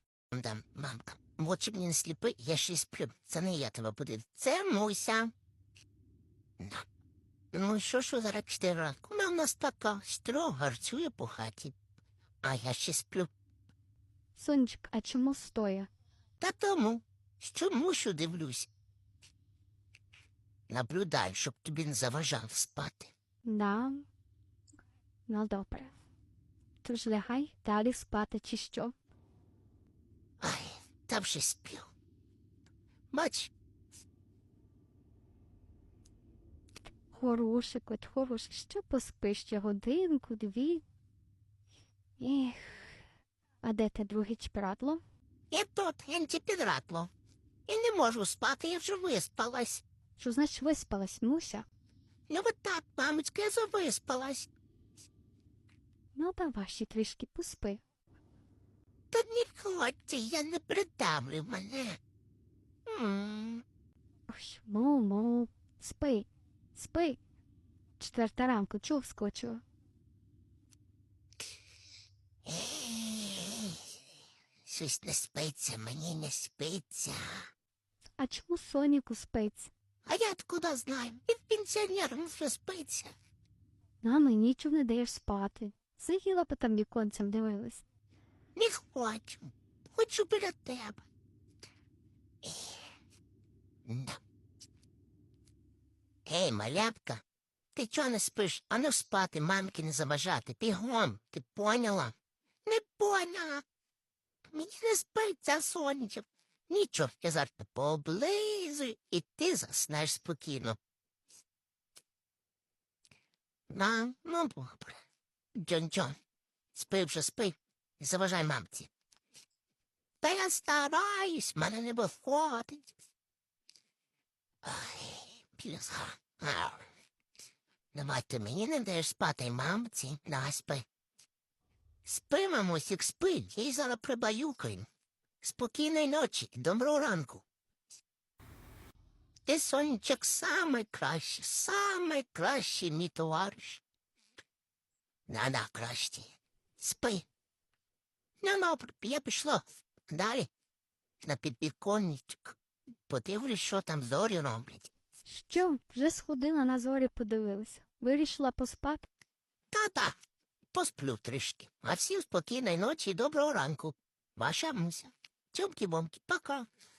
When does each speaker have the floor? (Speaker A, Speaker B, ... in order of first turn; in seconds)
Speaker A: 0.3-5.3, 6.6-6.8, 7.5-11.8, 12.4-13.3, 16.4-18.7, 20.7-23.1, 30.4-31.9, 33.1-33.5, 45.5-47.1, 47.7-49.8, 52.3-54.5, 59.1-62.0, 62.9-63.6, 72.5-73.8, 74.7-77.5, 80.1-83.1, 88.5-91.0, 92.4-92.7, 93.9-94.2, 96.3-97.2, 97.8-102.1, 102.7-103.6, 104.5-110.8, 113.7-115.0, 115.6-116.2, 116.7-118.9, 120.2-122.9, 124.6-126.9, 127.9-130.9, 132.1-134.9, 135.4-137.4, 139.5-143.8, 145.3-147.3, 148.4-150.5, 151.2-152.6, 153.1-154.9, 159.7-160.2, 160.7-166.7
Speaker B: 14.4-15.9, 23.4-24.1, 25.3-25.9, 26.8-28.9, 37.1-40.8, 42.2-43.0, 43.6-45.0, 50.2-51.7, 56.1-57.8, 64.3-67.2, 68.0-69.6, 78.2-79.7, 84.0-87.8, 155.3-159.1